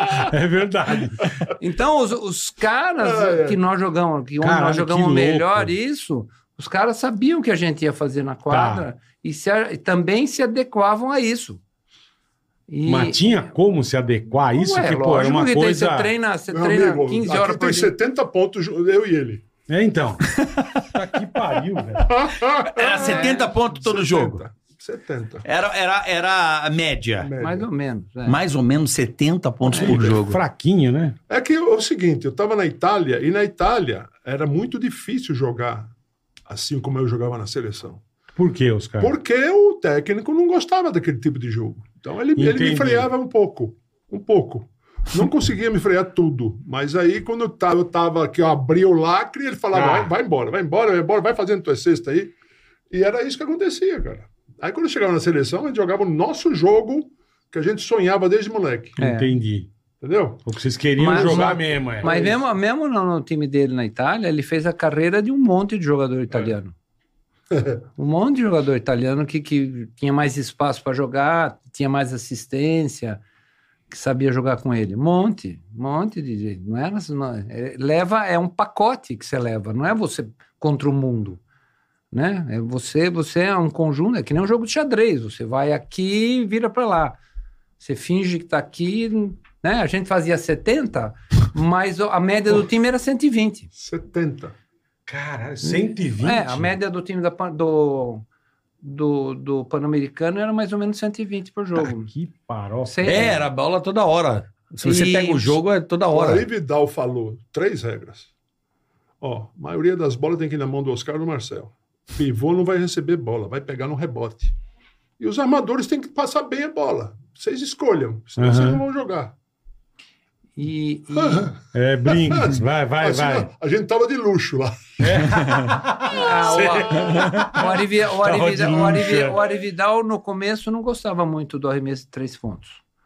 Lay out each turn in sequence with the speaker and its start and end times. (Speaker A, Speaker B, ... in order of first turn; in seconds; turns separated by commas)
Speaker A: 0.1-1.3, Speaker B: 1.6-11.6, Speaker C: 3.0-3.6, Speaker A: 4.4-5.7, Speaker A: 8.5-8.9, Speaker B: 12.7-13.5, Speaker A: 12.8-16.1, Speaker B: 14.5-17.9, Speaker C: 16.5-19.4, Speaker A: 19.7-22.2, Speaker D: 20.4-20.6, Speaker C: 22.1-25.4, Speaker D: 22.7-24.4, Speaker B: 23.0-23.4, Speaker D: 25.4-27.3, Speaker C: 27.2-27.7, Speaker B: 27.4-28.4, Speaker D: 28.3-30.4, Speaker B: 29.7-29.9, Speaker A: 29.8-31.2, Speaker C: 29.8-30.2, Speaker C: 31.3-35.9, Speaker C: 36.5-38.0, Speaker A: 38.4-39.1, Speaker C: 39.0-52.3, Speaker A: 42.4-43.1, Speaker A: 49.7-50.1, Speaker C: 52.9-59.0, Speaker B: 59.0-59.3, Speaker A: 59.0-59.7, Speaker C: 60.0-60.4, Speaker A: 60.5-62.1, Speaker B: 61.0-66.7, Speaker C: 61.1-62.4, Speaker C: 67.5-67.8, Speaker B: 68.0-73.2, Speaker B: 73.9-81.4, Speaker B: 82.1-87.2, Speaker B: 87.8-93.7, Speaker C: 93.8-94.5, Speaker A: 95.1-96.8, Speaker B: 95.6-98.2, Speaker B: 98.8-102.1, Speaker A: 101.8-103.4, Speaker B: 102.9-103.4, Speaker D: 103.0-106.5, Speaker B: 104.8-105.6, Speaker C: 106.1-108.3, Speaker C: 109.2-114.5, Speaker C: 115.2-119.3, Speaker A: 118.4-118.8, Speaker B: 120.6-121.5, Speaker C: 121.2-121.6, Speaker A: 121.7-123.5, Speaker C: 122.1-124.9, Speaker A: 125.0-129.4, Speaker D: 125.4-125.8, Speaker B: 126.1-132.8